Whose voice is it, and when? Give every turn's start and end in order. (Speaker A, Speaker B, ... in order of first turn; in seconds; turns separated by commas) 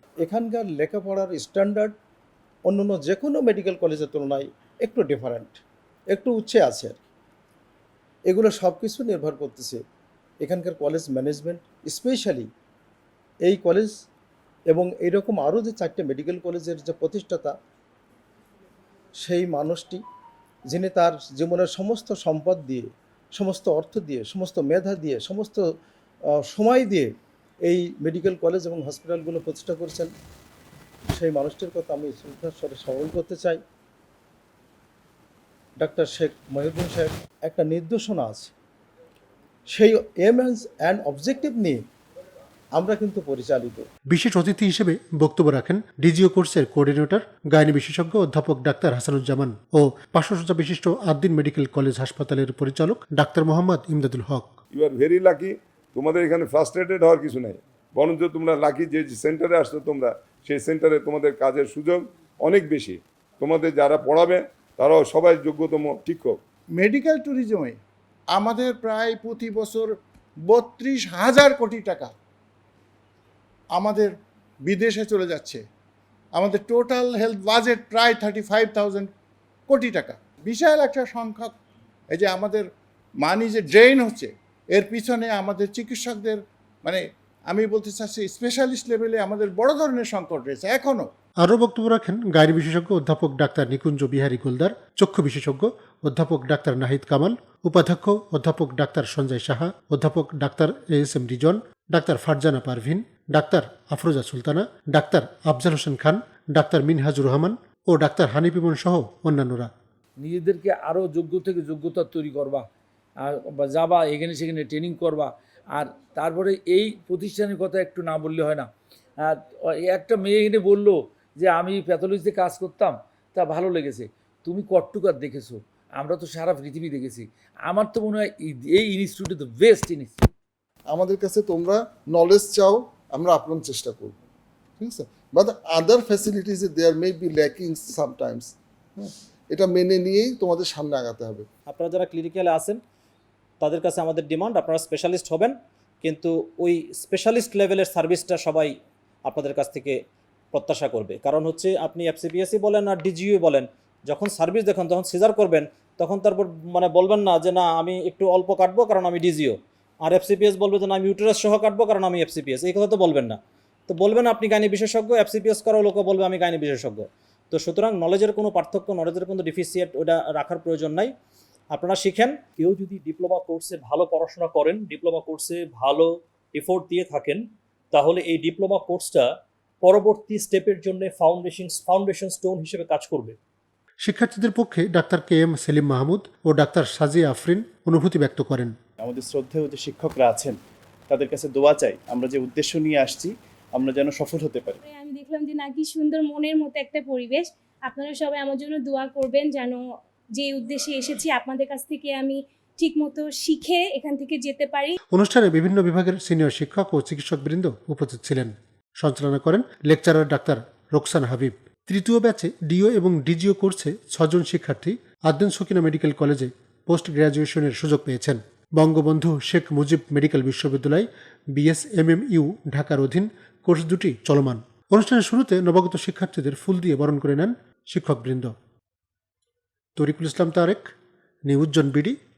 Speaker A: 0.2-1.9, Speaker A: 2.6-7.0, Speaker A: 8.3-9.8, Speaker A: 10.4-12.5, Speaker A: 13.4-13.9, Speaker A: 14.7-17.5, Speaker A: 19.2-20.0, Speaker A: 20.7-25.7, Speaker A: 26.3-30.1, Speaker A: 31.1-33.6, Speaker A: 35.8-38.5, Speaker A: 39.7-41.8, Speaker A: 42.7-43.9, Speaker B: 44.1-54.5, Speaker C: 54.7-66.4, Speaker D: 66.7-67.8, Speaker D: 68.3-72.1, Speaker D: 73.7-75.6, Speaker D: 76.3-79.1, Speaker D: 79.7-81.5, Speaker D: 82.1-91.1, Speaker B: 91.4-109.7, Speaker E: 110.2-112.6, Speaker E: 113.6-115.3, Speaker E: 115.8-118.6, Speaker E: 119.9-120.9, Speaker E: 121.4-130.2, Speaker F: 130.9-134.1, Speaker F: 134.8-141.5, Speaker G: 141.7-142.8, Speaker G: 143.6-148.7, Speaker G: 149.2-150.0, Speaker G: 150.5-171.1, Speaker G: 171.7-172.4, Speaker H: 172.5-183.3, Speaker B: 184.0-188.7, Speaker I: 189.0-194.8, Speaker J: 194.9-199.8, Speaker J: 200.4-204.9, Speaker B: 205.1-228.5, Speaker B: 229.9-230.9, Speaker B: 231.5-232.2